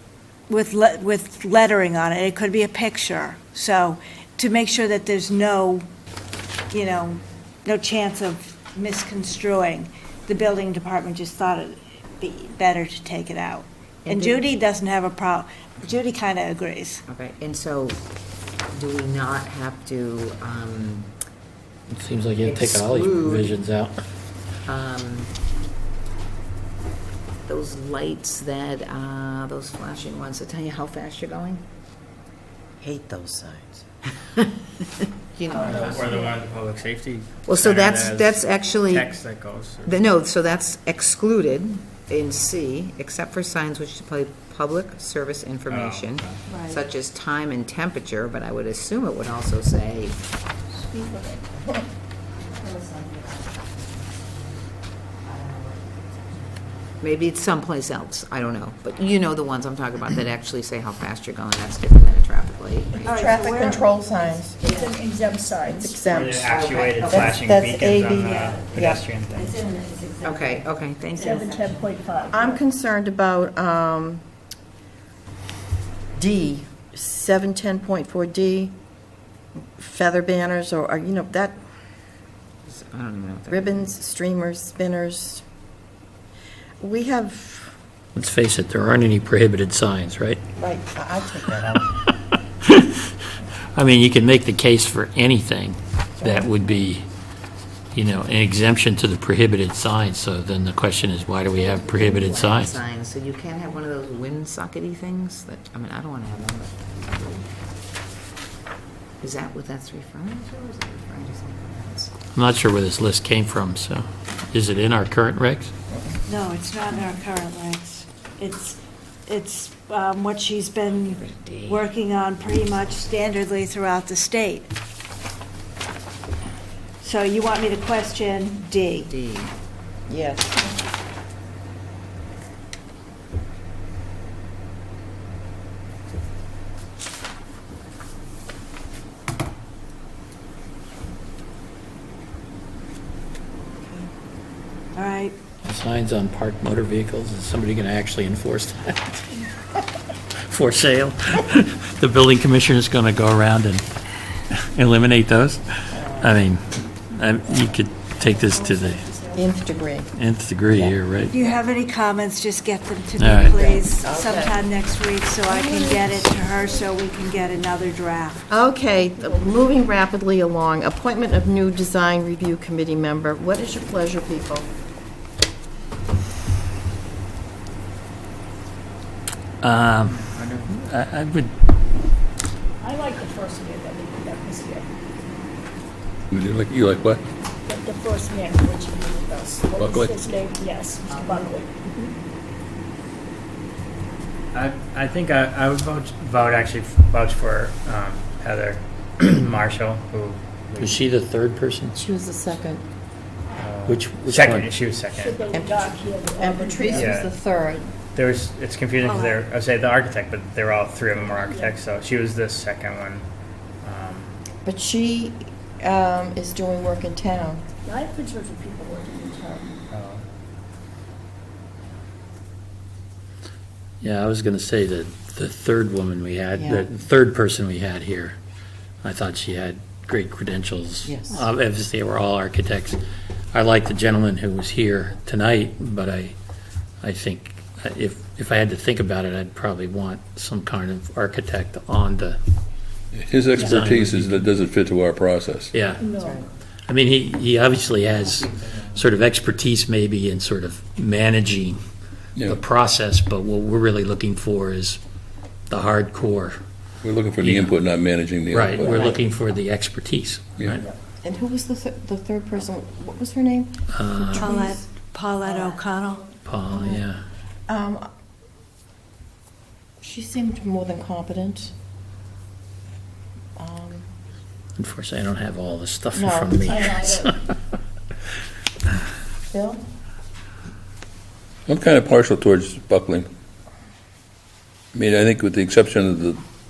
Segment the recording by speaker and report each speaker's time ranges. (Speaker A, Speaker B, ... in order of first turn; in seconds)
Speaker A: 0.5-5.8, 6.7-17.0, 46.5-46.8, 63.0-63.8, 68.2-68.6, 116.3-124.7, 127.0-129.1, 144.9-145.3, 161.3-168.5, 209.0-209.4, 264.3-266.3
Speaker B: 14.1-14.4, 17.1-18.0, 18.7-21.1, 22.4-23.6, 24.6-25.3, 27.4-31.6, 34.2-34.5, 35.3-36.2, 37.5-39.1, 39.8-50.3, 57.0-63.7, 66.5-67.4, 70.2-71.9, 82.7-83.9, 101.6-107.5, 109.2-112.1, 121.0-121.9, 129.1-129.5, 180.3-180.7, 191.1-191.5, 248.7-248.9
Speaker C: 21.9-24.0, 35.9-36.4, 67.5-67.9, 88.1-90.4, 92.6-93.1, 93.7-97.0, 97.9-102.7, 112.3-115.7, 145.7-149.2, 150.5-153.8, 154.5-159.0, 160.2-161.3, 163.2-163.5, 179.6-181.5, 200.8-201.9, 203.8-204.8, 224.0-228.3, 229.0-233.0, 233.5-236.3, 237.0-242.4, 243.7-244.5, 245.7-246.0, 246.9-251.8, 252.4-255.0, 255.7-256.6, 257.4-257.7, 258.5-260.7, 263.9-264.5, 266.4-267.2, 274.8-276.8
Speaker D: 32.8-33.8, 63.1-64.9, 65.6-66.5, 67.1-70.3, 72.3-74.2, 76.1-78.7, 79.8-81.6, 83.5-85.4, 86.8-87.7, 90.5-92.0, 96.2-96.5, 130.1-130.7, 155.9-156.3, 159.3-160.1, 160.7-160.9, 163.4-164.6, 165.5-166.2, 168.5-174.7, 201.9-202.8, 205.5-207.9, 214.6-217.6, 226.5-226.9, 231.1-231.4, 246.2-246.5, 258.8-259.1, 261.2-264.8, 265.4-265.9, 266.7-267.0, 267.7-268.1, 270.0-271.7, 273.6-274.0, 276.1-276.8, 279.5-279.8
Speaker E: 35.5-36.3, 50.7-51.5, 63.7-66.0, 71.2-72.6, 158.2-159.5, 169.0-169.7, 182.8-184.8, 187.7-192.1, 205.1-207.2, 211.2-211.7, 217.8-219.8, 243.5-243.8, 246.0-246.4, 276.6-277.4
Speaker F: 35.8-38.3, 38.9-39.9, 45.7-46.4, 66.1-69.5, 194.5-201.0, 203.6-205.4, 207.0-207.3, 208.1-213.2, 213.8-214.3, 219.9-220.2
Speaker G: 186.3-187.2, 189.8-190.2, 243.1-245.7, 252.3-252.6, 257.0-259.2, 281.7-283.3, 284.9-286.4